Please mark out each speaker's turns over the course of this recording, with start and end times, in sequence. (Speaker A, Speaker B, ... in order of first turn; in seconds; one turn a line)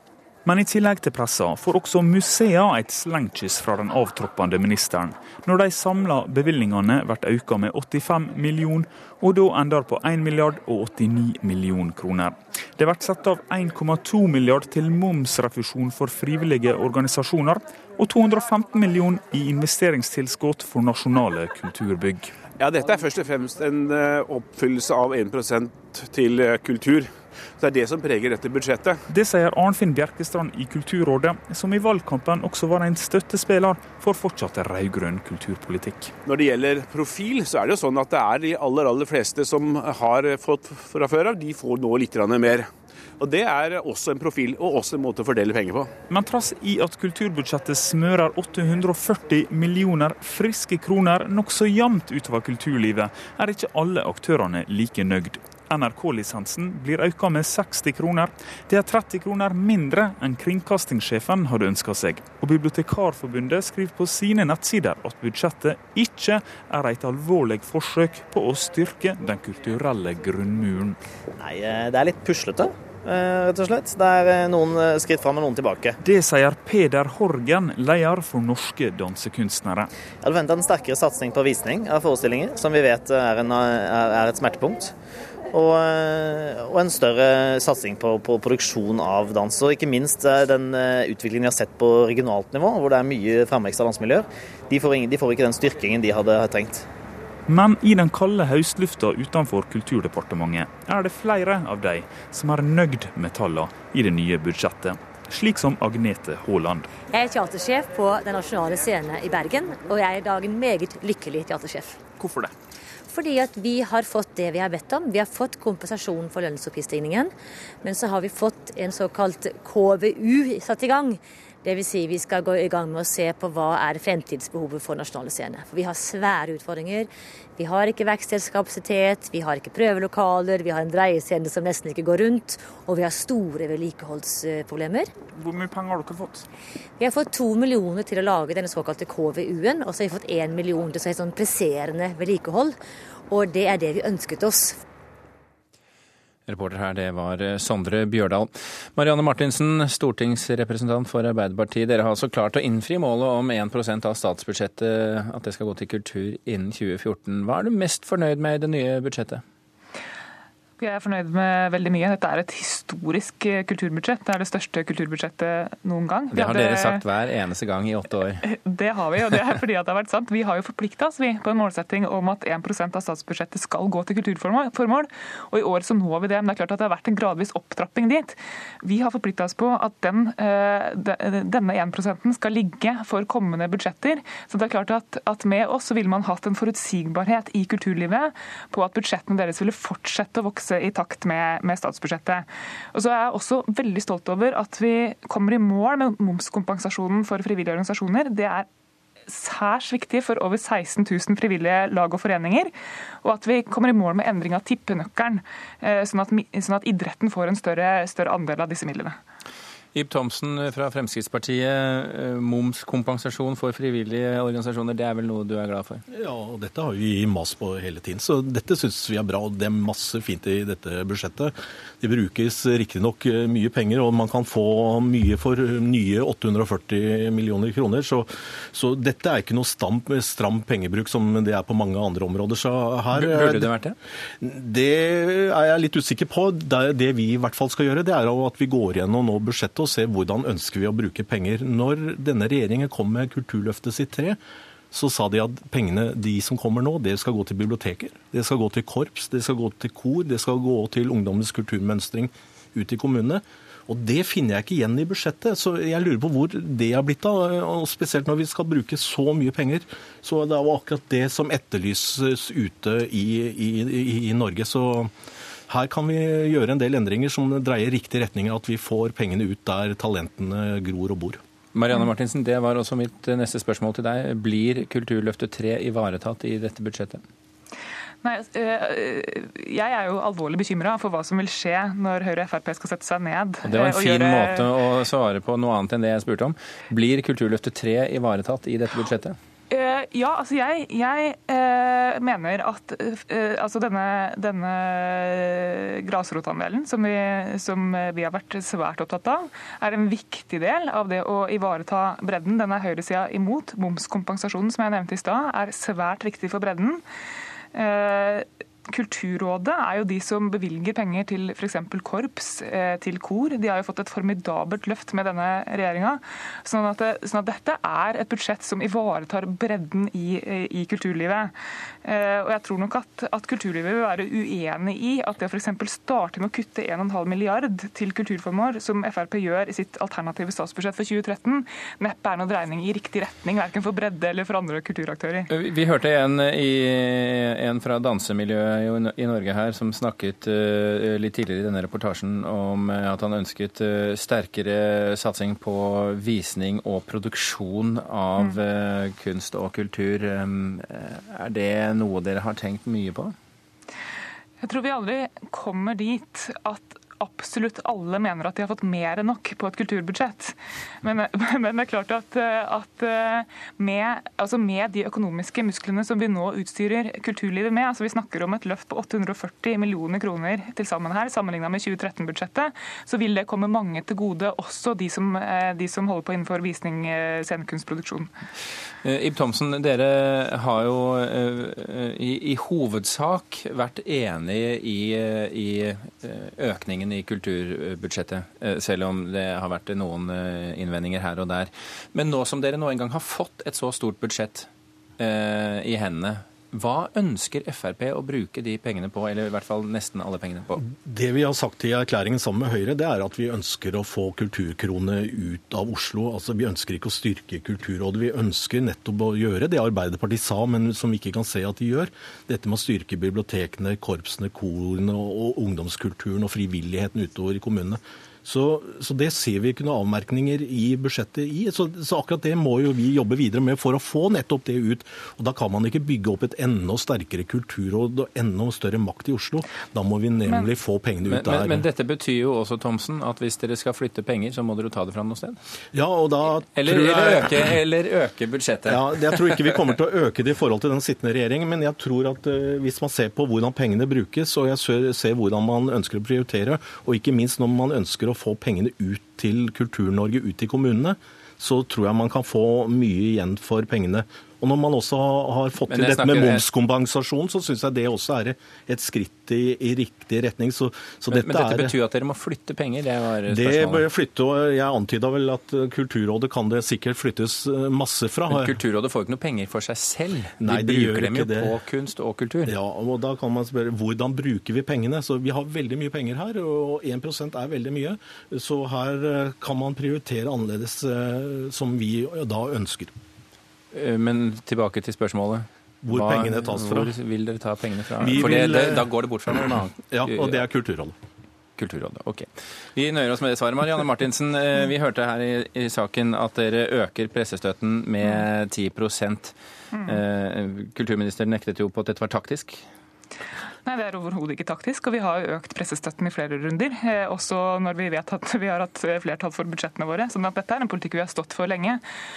Speaker A: 0.4-22.3
Speaker B: 22.6-29.0
Speaker A: 29.1-36.1
Speaker B: 36.2-42.7
Speaker B: 43.2-45.9
Speaker A: 46.1-71.0
Speaker C: 71.4-76.0
Speaker A: 76.0-79.9
Speaker C: 80.2-84.9
Speaker C: 85.5-96.8
Speaker A: 97.5-106.9
Speaker D: 107.1-112.0
Speaker A: 112.2-112.5
Speaker D: 113.1-117.3
Speaker D: 117.8-135.1
Speaker A: 135.3-136.4
Speaker D: 137.0-142.8
Speaker D: 143.3-144.8
Speaker E: 146.5-148.4
Speaker E: 149.0-154.8
Speaker E: 155.4-159.3
Speaker F: 160.8-167.1
Speaker E: 167.6-168.0
Speaker F: 168.4-198.7
Speaker F: 199.3-202.7
Speaker F: 203.2-209.2
Speaker E: 210.1-211.5
Speaker E: 212.9-213.4
Speaker E: 214.2-214.8
Speaker G: 216.1-233.7
Speaker G: 234.4-244.4
Speaker G: 244.9-265.1
Speaker G: 265.7-271.4
Speaker E: 271.9-273.4
Speaker E: 274.0-274.3
Speaker E: 274.9-277.1
Speaker F: 278.2-284.8
Speaker E: 285.4-286.4
Speaker E: 287.0-289.3
Speaker F: 289.7-307.0
Speaker F: 307.7-321.5
Speaker F: 322.0-335.6
Speaker E: 335.8-344.7
Speaker E: 345.2-347.7
Speaker E: 349.1-350.1
Speaker E: 351.5-353.2
Speaker F: 354.6-378.3
Speaker E: 379.2-379.9
Speaker E: 382.8-383.3
Speaker E: 384.4-385.0
Speaker E: 386.7-387.5
Speaker E: 388.8-390.2
Speaker E: 391.0-391.6
Speaker E: 394.0-394.4
Speaker E: 398.0-398.8
Speaker E: 399.6-400.4
Speaker G: 400.8-431.9
Speaker E: 432.7-434.2
Speaker G: 435.9-437.8
Speaker G: 438.9-462.0
Speaker E: 462.1-462.8
Speaker G: 463.4-468.8
Speaker E: 468.9-469.3
Speaker E: 470.0-470.3
Speaker G: 470.6-471.8
Speaker E: 472.1-472.5
Speaker G: 472.6-483.1
Speaker E: 484.6-485.2
Speaker G: 486.0-487.1
Speaker G: 488.2-491.1
Speaker E: 493.4-495.2
Speaker E: 495.9-496.5
Speaker E: 497.1-498.1
Speaker E: 498.7-499.3
Speaker F: 499.9-500.2
Speaker E: 501.4-502.2
Speaker F: 503.9-512.0